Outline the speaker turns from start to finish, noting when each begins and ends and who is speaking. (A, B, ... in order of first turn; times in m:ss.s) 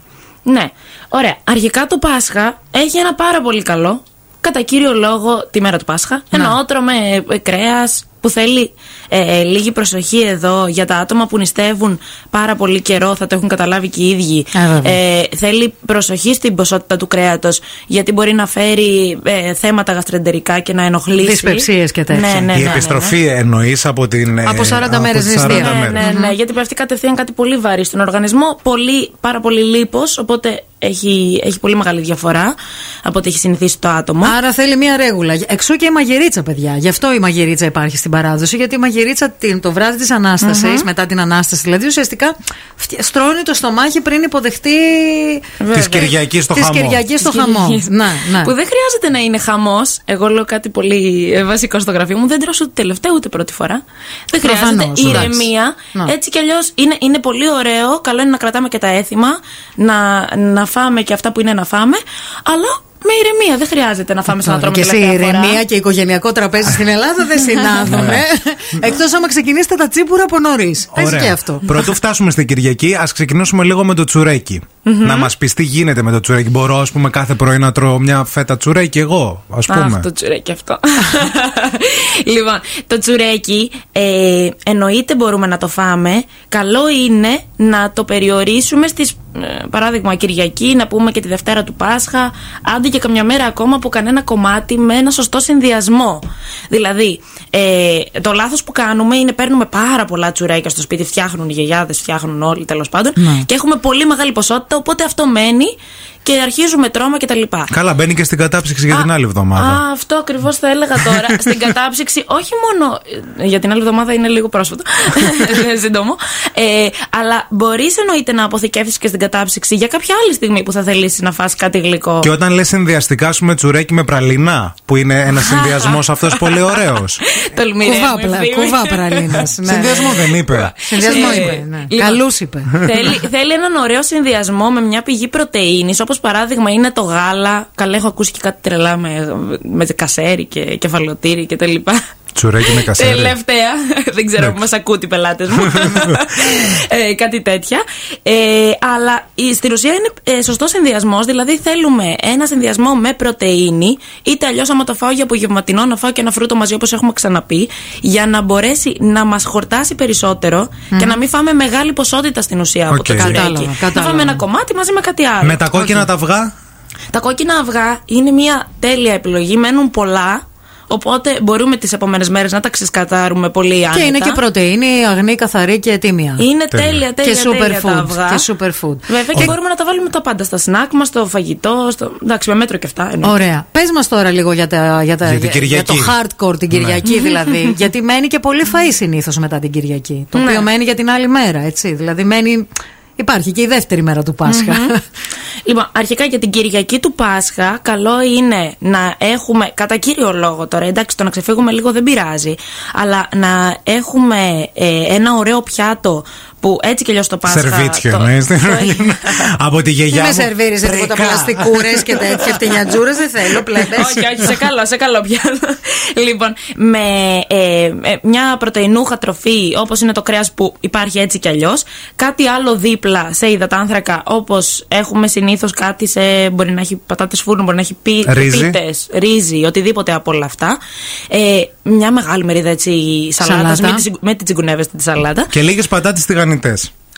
0:00.4-0:23.2 A
0:14.5-0:15.0 B
0:21.2-0:22.8 B
0:22.5-0:26.0 C
0:24.4-0:26.3 B
0:25.4-0:34.4 A
0:34.2-0:45.4 B
0:40.4-0:40.9 A
0:45.6-0:46.1 A
0:45.7-0:47.0 C
0:46.5-0:48.5 B
0:47.2-1:05.6 A
0:54.4-0:56.1 B
0:55.0-0:55.3 C
1:04.3-1:11.7 B
1:07.8-1:08.2 C
1:10.9-1:20.1 C
1:14.8-1:15.3 A
1:19.7-1:47.7 A
1:43.2-1:43.5 B
1:47.7-1:49.8 C
1:48.9-2:02.3 A
1:51.2-1:51.6 C
2:02.2-2:07.2 C
2:05.3-2:12.2 A
2:07.8-2:10.1 B
2:09.6-2:11.6 C
2:10.8-2:12.9 B
2:12.7-2:22.0 A
2:22.3-2:23.4 C
2:22.6-2:45.6 A
2:25.7-2:26.2 C
2:40.9-2:41.2 B
2:42.9-2:43.5 C
2:43.1-2:44.4 B
2:45.4-2:46.5 C
2:45.7-2:46.1 B
2:47.1-2:54.4 A
2:53.9-2:56.4 B
2:56.4-2:58.5 A
2:56.7-2:57.0 C
2:57.2-2:59.5 B
2:59.1-3:03.4 A
3:03.2-3:15.0 B
3:05.2-3:06.2 C
3:06.7-3:07.0 C
3:07.0-3:07.8 A
3:10.3-3:10.7 A
3:14.4-3:14.9 A
3:15.6-3:29.4 A
3:27.4-3:32.8 C
3:30.1-3:34.2 B
3:33.9-3:50.8 A
3:48.2-3:48.8 C
3:51.3-3:55.5 A
3:53.4-3:54.0 B
3:55.5-3:56.9 C